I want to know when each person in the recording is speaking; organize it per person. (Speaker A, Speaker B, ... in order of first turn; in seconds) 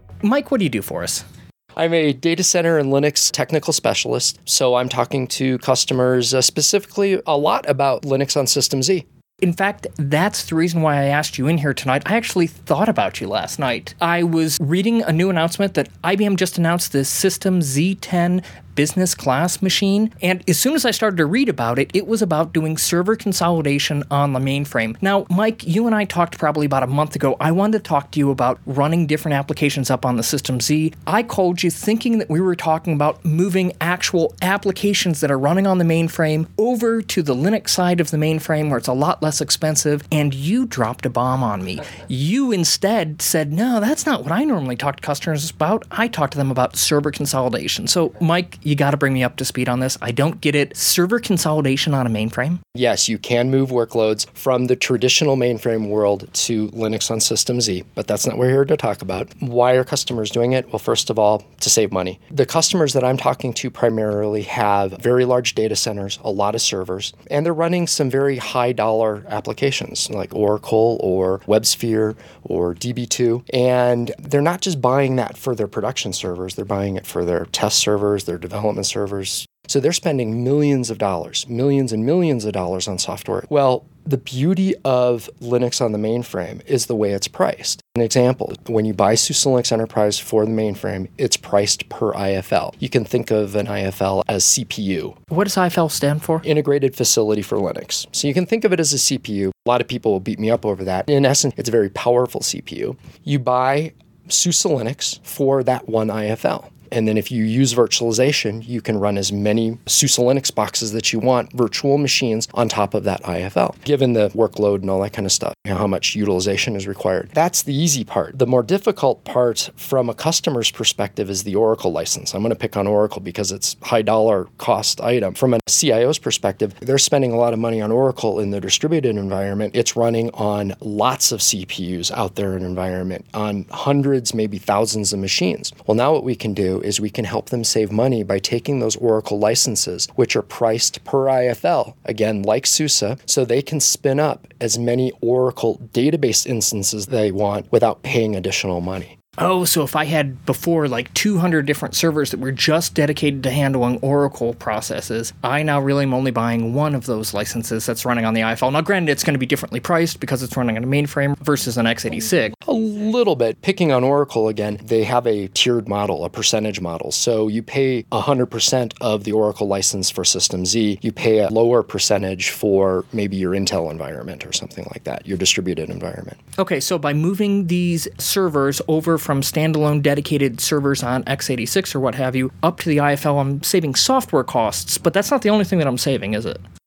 Speaker A: 0.2-1.2, 9.4-52.6, 95.3-96.5, 149.4-162.5, 176.6-186.6
Speaker B: 1.8-9.0, 52.7-95.2, 96.4-149.1, 162.6-176.4